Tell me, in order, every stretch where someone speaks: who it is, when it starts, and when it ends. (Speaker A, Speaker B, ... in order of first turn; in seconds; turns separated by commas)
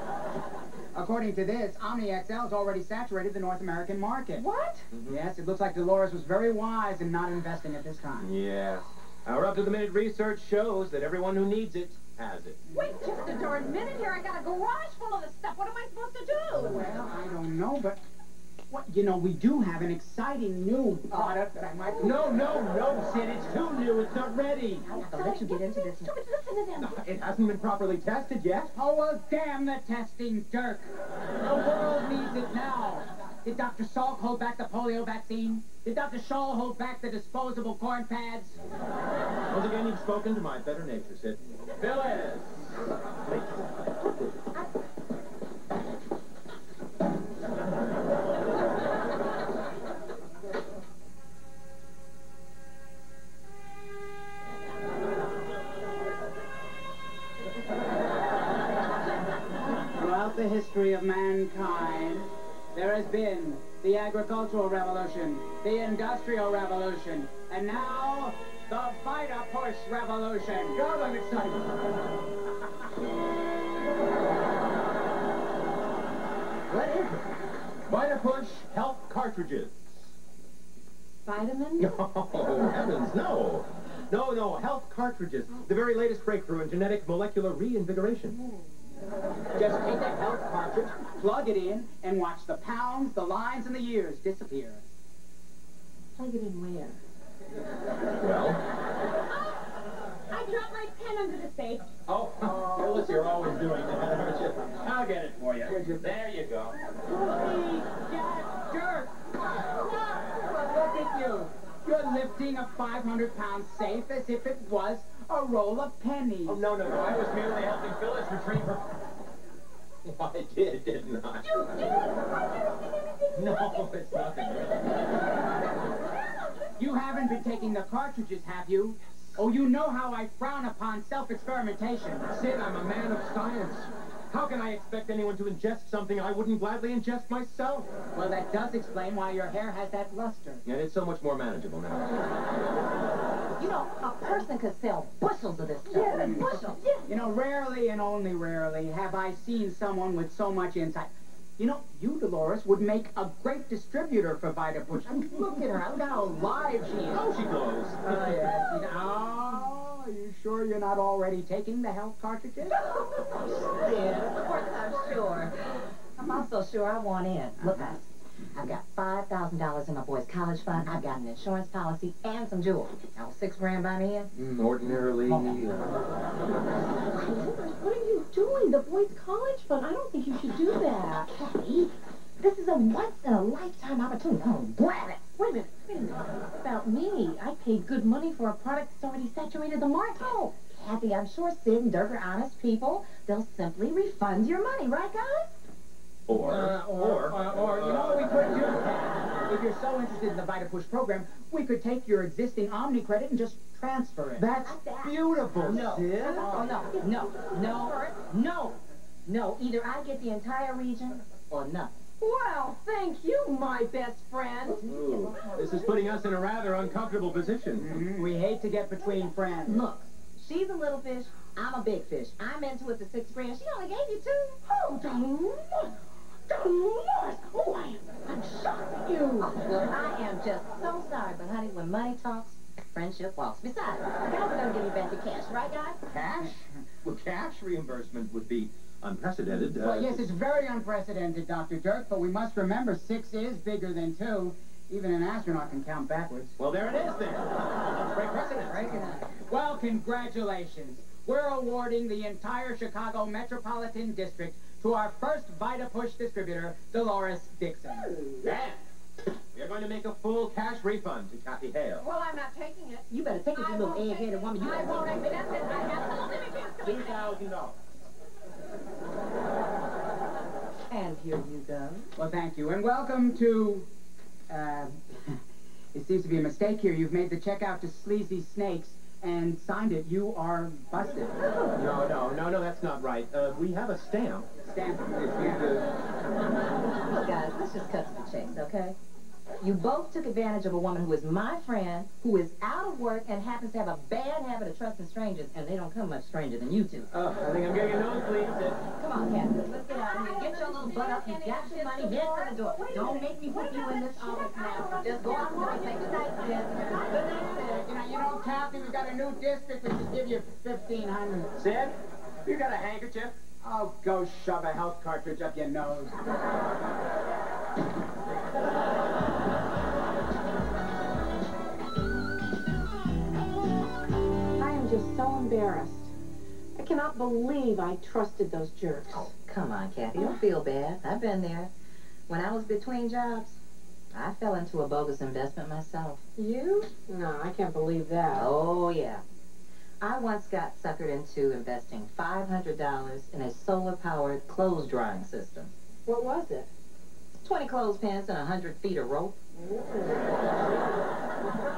Speaker A: 0.9-4.5, Speaker B: 4.4-4.9, Speaker C: 4.9-5.2, Speaker A: 5.1-8.3, Speaker C: 8.2-12.6, Speaker D: 12.7-16.8, Speaker A: 16.6-18.0, Speaker A: 18.7-22.5, Speaker C: 22.0-24.9, Speaker E: 24.9-26.1, Speaker D: 25.1-26.6, Speaker B: 25.1-26.1, Speaker C: 26.8-28.7, Speaker A: 28.7-30.9, Speaker A: 31.4-38.6, Speaker C: 39.5-42.7, Speaker C: 43.3-43.5, Speaker A: 60.0-71.8, Speaker C: 77.9-79.8, Speaker B: 81.3-82.0, Speaker C: 81.8-88.4, Speaker A: 89.5-94.8, Speaker B: 96.2-97.0, Speaker C: 98.2-98.6, Speaker D: 99.3-99.6, Speaker D: 100.3-101.9, Speaker C: 102.1-106.8, Speaker A: 105.7-106.0, Speaker A: 107.1-109.2, Speaker A: 110.3-116.6, Speaker C: 116.5-118.9, Speaker C: 120.0-121.8, Speaker D: 121.4-124.2, Speaker C: 123.3-125.0, Speaker A: 126.8-132.3, Speaker C: 132.3-137.9, Speaker A: 138.1-140.6, Speaker C: 140.7-142.2, Speaker E: 143.6-146.8, Speaker D: 146.0-147.0, Speaker A: 146.1-146.5, Speaker A: 147.1-157.3, Speaker C: 157.1-158.5, Speaker A: 158.0-162.8, Speaker E: 162.8-174.3, Speaker A: 167.6-167.9, Speaker C: 174.3-175.9, Speaker A: 175.2-175.7, Speaker B: 177.1-181.3, Speaker E: 181.3-185.3, Speaker B: 185.4-190.5, Speaker E: 190.5-195.6, Speaker C: 196.3-198.3, Speaker A: 196.3-204.6, Speaker C: 204.4-206.4, Speaker E: 204.6-211.9, Speaker A: 205.5-206.7, Speaker B: 206.6-206.9, Speaker B: 207.5-208.1, Speaker B: 212.2-214.9, Speaker C: 214.8-218.0, Speaker E: 215.3-215.6, Speaker A: 217.8-219.8, Speaker E: 219.7-224.6, Speaker B: 224.8-225.6, Speaker B: 226.5-229.5, Speaker E: 229.4-236.0, Speaker C: 236.1-240.3, Speaker A: 236.2-236.6, Speaker A: 239.6-246.6, Speaker C: 246.6-249.1, Speaker A: 248.7-258.2, Speaker E: 248.9-249.3, Speaker C: 258.4-258.8, Speaker C: 259.5-262.1, Speaker B: 262.0-267.1, Speaker E: 263.1-265.3, Speaker D: 263.7-267.3, Speaker C: 266.8-267.8, Speaker E: 270.9-272.1, Speaker A: 272.2-273.9, Speaker A: 274.5-275.4, Speaker A: 275.9-281.4, Speaker C: 281.8-284.5, Speaker A: 284.6-285.8, Speaker C: 285.5-285.8, Speaker E: 287.1-289.0, Speaker E: 289.6-297.1, Speaker C: 297.1-298.8, Speaker E: 298.9-307.8, Speaker D: 299.9-306.0, Speaker B: 302.5-306.2, Speaker A: 307.1-311.5, Speaker C: 311.6-313.3, Speaker A: 313.6-316.2, Speaker B: 324.6-326.1, Speaker B: 326.8-329.3, Speaker E: 329.1-331.7, Speaker E: 332.3-333.6, Speaker E: 334.1-336.2, Speaker B: 336.4-338.5, Speaker E: 338.3-339.2, Speaker E: 340.0-345.7, Speaker B: 346.1-346.7, Speaker E: 347.4-349.4, Speaker B: 349.6-350.1